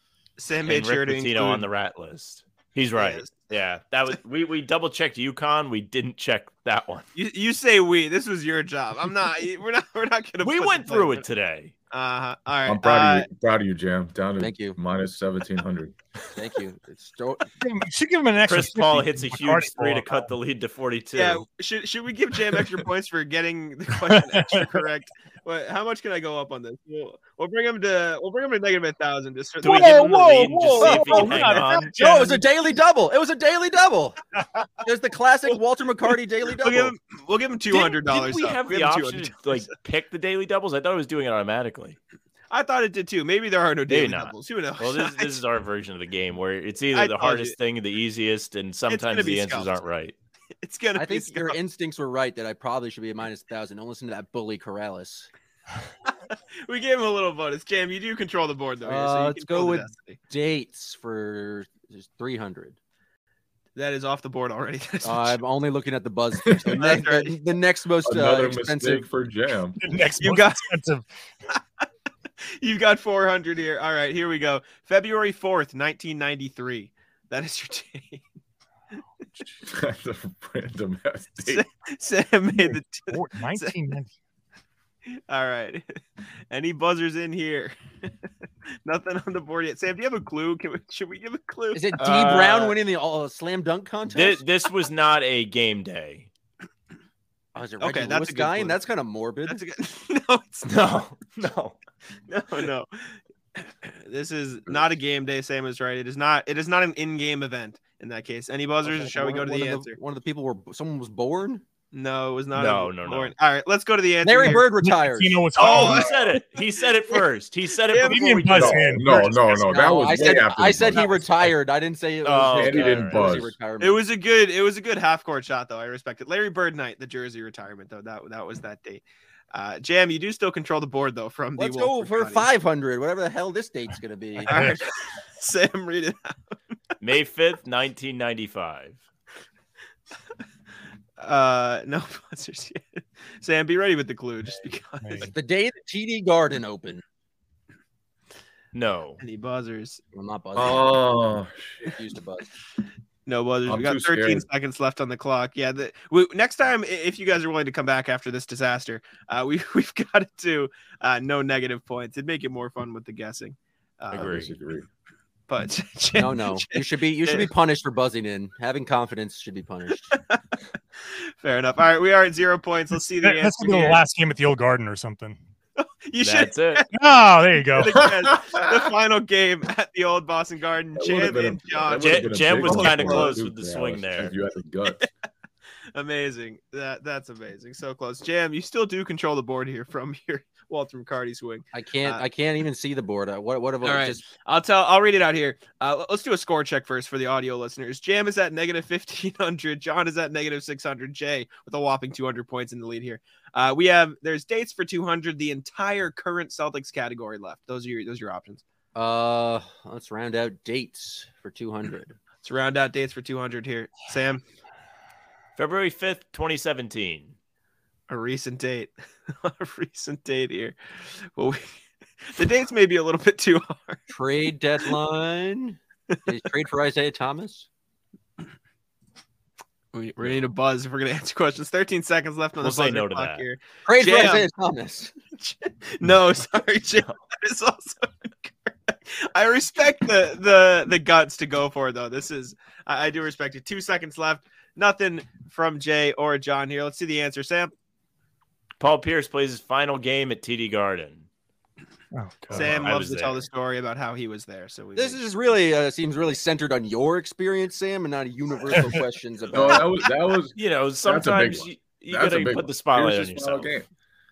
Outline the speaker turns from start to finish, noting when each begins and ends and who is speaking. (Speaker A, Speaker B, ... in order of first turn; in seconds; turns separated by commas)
Speaker A: 0.4-1.6, Speaker B: 0.7-7.1, Speaker A: 3.0-3.3, Speaker A: 7.2-11.2, Speaker B: 10.4-11.7, Speaker A: 11.9-13.3, Speaker C: 12.7-16.0, Speaker D: 14.4-14.8, Speaker D: 16.3-17.5, Speaker E: 17.6-20.3, Speaker B: 18.5-21.4, Speaker A: 21.1-30.2, Speaker E: 24.1-24.8, Speaker B: 29.6-31.9, Speaker E: 29.6-32.4, Speaker D: 30.8-34.2, Speaker D: 34.8-36.9, Speaker A: 36.6-39.7, Speaker B: 37.7-42.0, Speaker A: 42.5-45.4, Speaker B: 43.9-50.2, Speaker A: 46.9-47.6, Speaker A: 48.9-49.8, Speaker A: 50.6-51.6, Speaker D: 51.0-55.3, Speaker A: 56.7-60.2, Speaker D: 58.8-62.8, Speaker A: 63.8-65.4, Speaker D: 65.0-69.1, Speaker C: 66.5-66.8, Speaker A: 66.7-67.4, Speaker C: 68.0-69.8, Speaker E: 69.8-71.1, Speaker A: 70.2-70.7, Speaker A: 72.6-78.2, Speaker C: 79.6-81.7, Speaker A: 81.4-83.7, Speaker E: 82.6-84.1, Speaker A: 85.3-87.7, Speaker A: 88.8-92.6, Speaker D: 91.7-94.4, Speaker B: 92.0-92.7, Speaker B: 94.1-96.3, Speaker D: 97.5-99.6, Speaker A: 97.8-98.8, Speaker A: 99.5-100.9, Speaker B: 100.7-101.8, Speaker A: 102.3-110.0, Speaker D: 108.8-111.6, Speaker A: 111.9-114.7, Speaker B: 112.5-113.3, Speaker D: 114.2-115.5, Speaker E: 114.5-116.1, Speaker A: 115.6-116.4, Speaker B: 115.6-119.0, Speaker A: 117.9-118.6, Speaker E: 118.0-119.4, Speaker C: 118.5-121.3, Speaker D: 119.5-124.0, Speaker B: 122.2-123.4, Speaker C: 122.5-123.5, Speaker A: 123.8-132.5, Speaker D: 131.6-134.7, Speaker E: 134.4-134.8, Speaker A: 134.5-136.6, Speaker B: 137.0-139.0, Speaker A: 141.2-145.3, Speaker E: 145.0-145.3, Speaker D: 145.3-147.0, Speaker B: 148.7-149.2, Speaker A: 149.2-150.0, Speaker D: 150.1-151.0, Speaker C: 150.6-151.8, Speaker D: 151.8-152.5, Speaker A: 153.3-164.5, Speaker C: 153.7-154.5, Speaker B: 164.1-164.5, Speaker C: 164.2-164.9, Speaker A: 165.5-167.5, Speaker D: 166.2-170.1, Speaker A: 170.1-170.4, Speaker A: 171.1-174.0, Speaker E: 173.2-175.4, Speaker A: 175.8-176.9, Speaker B: 176.2-176.8, Speaker E: 176.9-178.1, Speaker A: 177.7-183.3, Speaker C: 178.2-178.7, Speaker C: 181.0-185.1, Speaker B: 182.0-184.3, Speaker A: 185.9-192.2, Speaker D: 191.7-194.2, Speaker A: 193.8-208.6, Speaker D: 208.9-212.2, Speaker A: 212.4-214.4, Speaker B: 215.6-217.4, Speaker A: 218.1-221.7, Speaker A: 222.3-224.1, Speaker D: 224.1-227.7, Speaker A: 229.9-234.5, Speaker B: 232.6-233.4, Speaker D: 233.9-235.1, Speaker A: 235.4-247.7, Speaker B: 248.8-251.3, Speaker E: 252.1-252.8, Speaker B: 252.5-253.5, Speaker A: 252.5-255.2, Speaker D: 254.9-260.0, Speaker C: 259.5-263.9, Speaker B: 260.6-263.7